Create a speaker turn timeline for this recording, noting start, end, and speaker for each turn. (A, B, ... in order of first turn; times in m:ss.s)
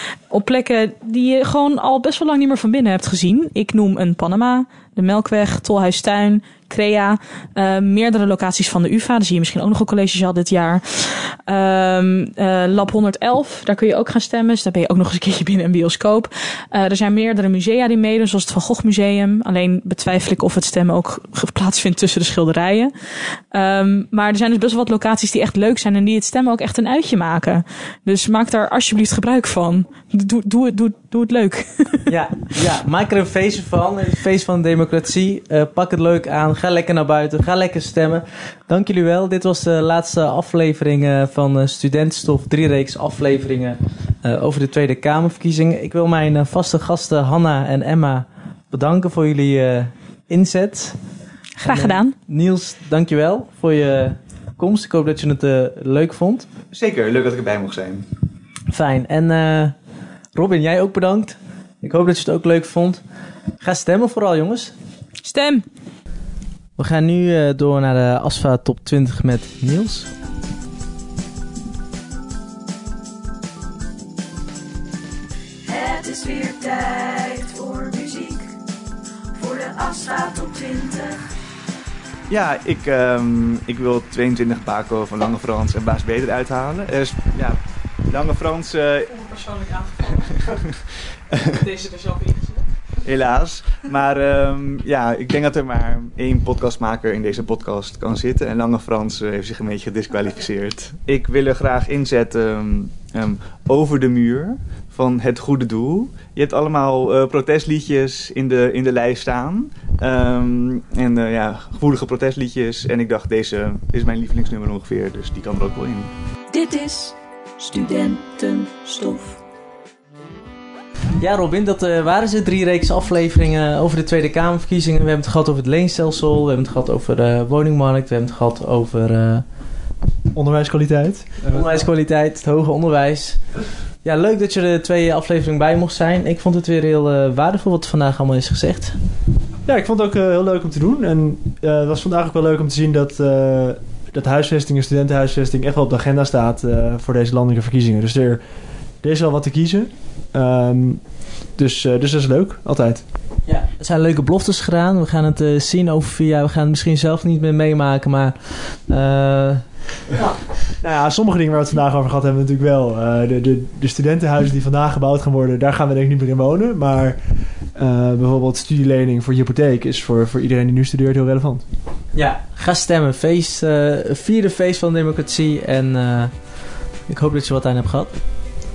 0:00.3-0:32.1 A
0:32.1-0:51.0 B
0:51.6-0:52.1 A
0:51.7-0:56.5 B
0:56.7-0:58.1 C
0:58.7-0:59.8 B
1:00.4-1:03.0 B
1:03.6-1:04.7 B
1:05.2-1:05.6 A
1:06.8-1:10.1 B
1:15.7-1:18.5 D
1:19.4-1:21.2 D
1:22.3-1:29.2 C
1:29.1-1:30.4 A
1:30.3-1:30.6 C
1:31.3-1:31.6 C
1:31.6-1:32.6 A
1:33.0-1:56.1 C
1:56.5-1:59.4 D
2:01.2-2:09.5 B
2:10.3-2:11.9 E
2:11.5-2:19.0 B
2:19.7-2:28.4 E
2:29.0-2:33.0 E
2:33.5-2:39.8 B
2:40.7-2:51.6 E
2:52.1-2:58.1 B